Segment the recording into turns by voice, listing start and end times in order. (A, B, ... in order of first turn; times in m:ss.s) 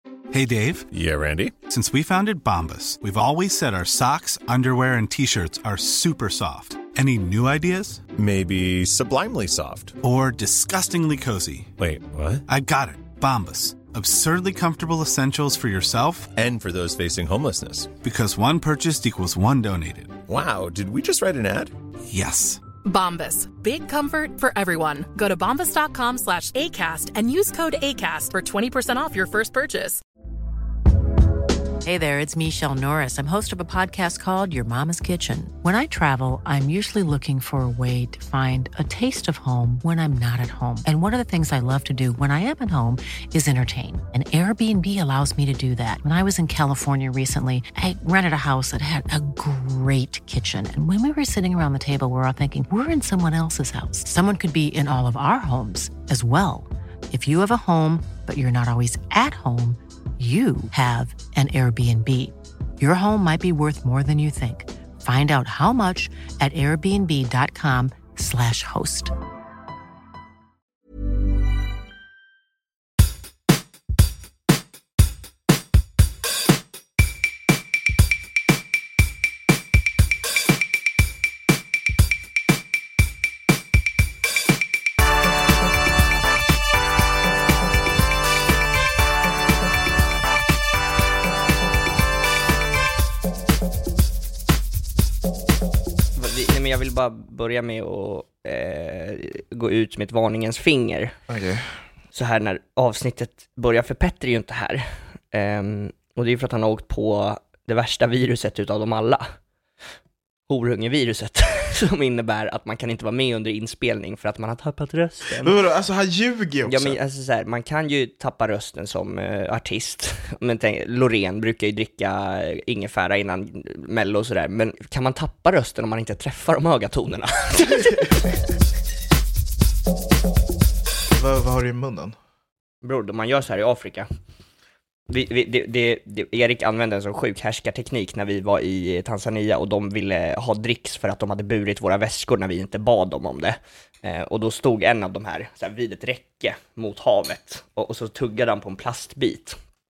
0:00.3-0:00.9 A
0:00.9-0:01.5 B
0:01.7-0:08.0 A
0:08.2-0:10.0 B
0:10.0-0:11.7 A
0:11.8-0:12.4 B
0:12.5-0:16.3 A
0:16.4-0:17.9 B
0:18.0-0:20.2 A
0:20.3-0:21.7 B
0:22.1-0:22.6 A
0:22.8-0:30.0 C
0:31.8-1:09.1 D
1:36.2-1:41.2 E
1:41.3-1:41.6 F
1:42.1-1:49.3 E
1:50.5-1:55.6 E
1:55.4-1:57.0 F
1:56.7-2:08.4 E
2:11.2-2:12.2 F
2:12.8-2:14.1 E
2:15.1-2:29.6 E